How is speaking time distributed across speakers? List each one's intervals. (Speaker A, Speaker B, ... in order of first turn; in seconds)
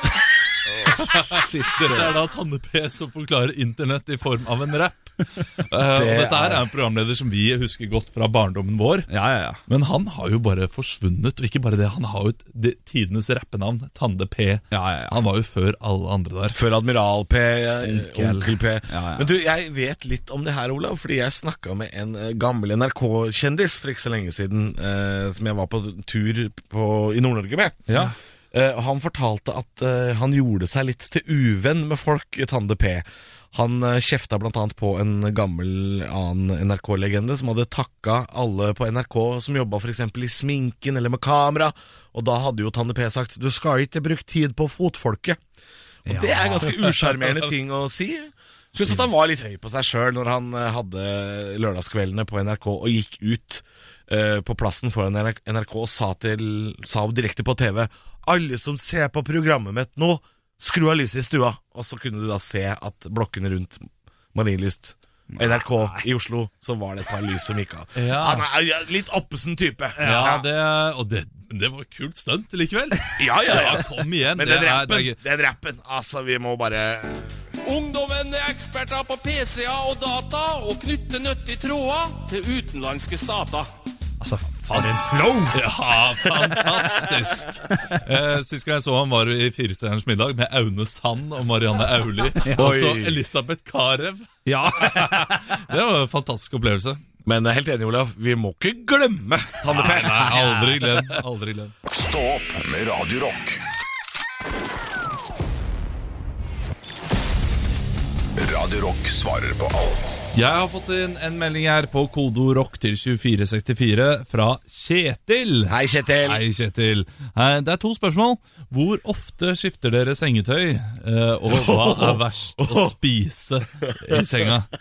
Speaker A: 0.9-9.1, 9.7-16.6, 68.0-68.5, 70.0-75.2, 85.5-97.0, 99.7-101.7, 110.3-124.7
Speaker B: 1.2-2.1, 9.1-9.6, 14.7-15.2, 17.8-19.3, 27.9-28.1, 46.1-46.7, 65.3-66.0, 70.0-70.4, 84.2-85.6, 87.7-88.0, 94.5-95.6
Speaker C: 5.9-6.7, 16.5-45.4, 46.1-70.5, 73.2-77.4, 92.5-93.2, 97.2-101.2, 115.7-116.4, 121.5-123.0, 123.8-124.5
Speaker D: 77.6-83.7
Speaker E: 101.9-103.6, 108.4-110.2